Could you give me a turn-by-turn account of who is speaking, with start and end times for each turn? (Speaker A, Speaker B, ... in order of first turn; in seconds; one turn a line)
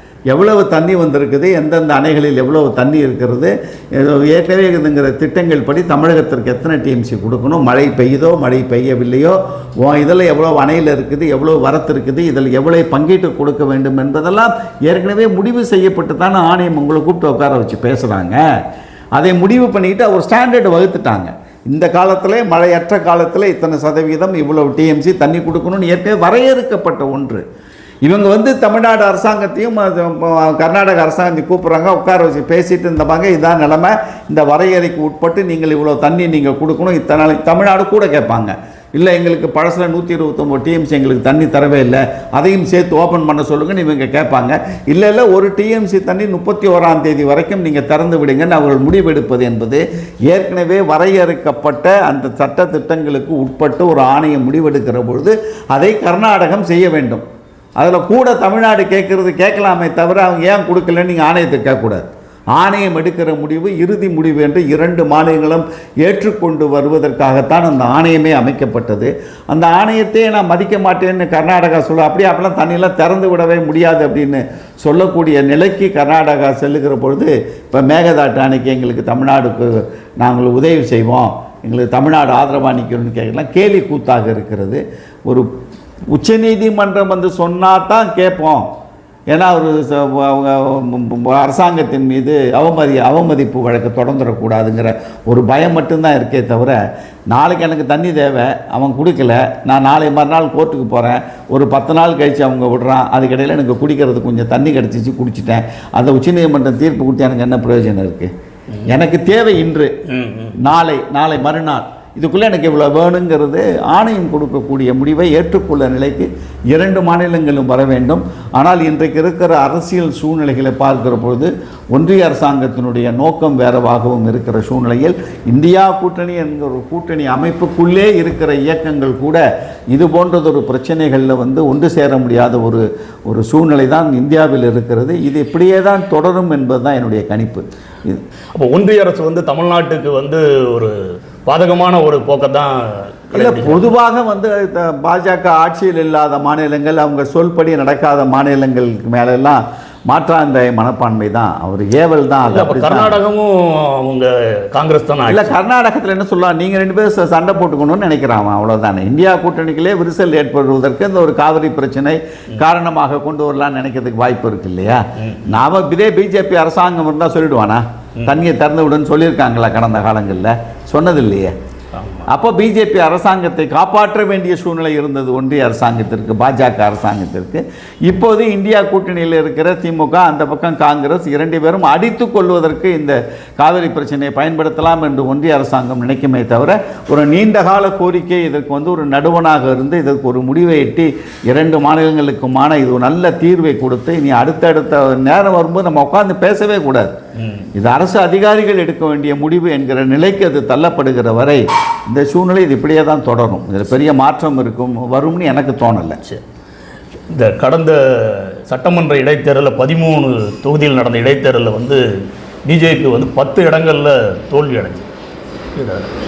Speaker A: 0.3-18.4
Speaker A: 19.1-27.4
Speaker A: 28.1-57.2
Speaker A: 57.8-85.5
Speaker A: 86.1-88.7
Speaker A: 89.3-96.8
Speaker A: 97.3-108.3
Speaker A: 108.8-109.9
Speaker B: 110.1-110.5
Speaker A: 110.6-138.2
Speaker B: 138.5-143.9
Speaker A: 143.3-153.1
Speaker B: 152.5-155.5
Speaker A: 155.3-171.5
Speaker B: 165.2-165.4
Speaker B: 171.9-172.3
Speaker A: 172.3-197.1
Speaker B: 197.4-197.7
Speaker A: 197.8-206.2
Speaker B: 207.3-212.0
Speaker B: 212.7-215.1
Speaker B: 215.8-216.1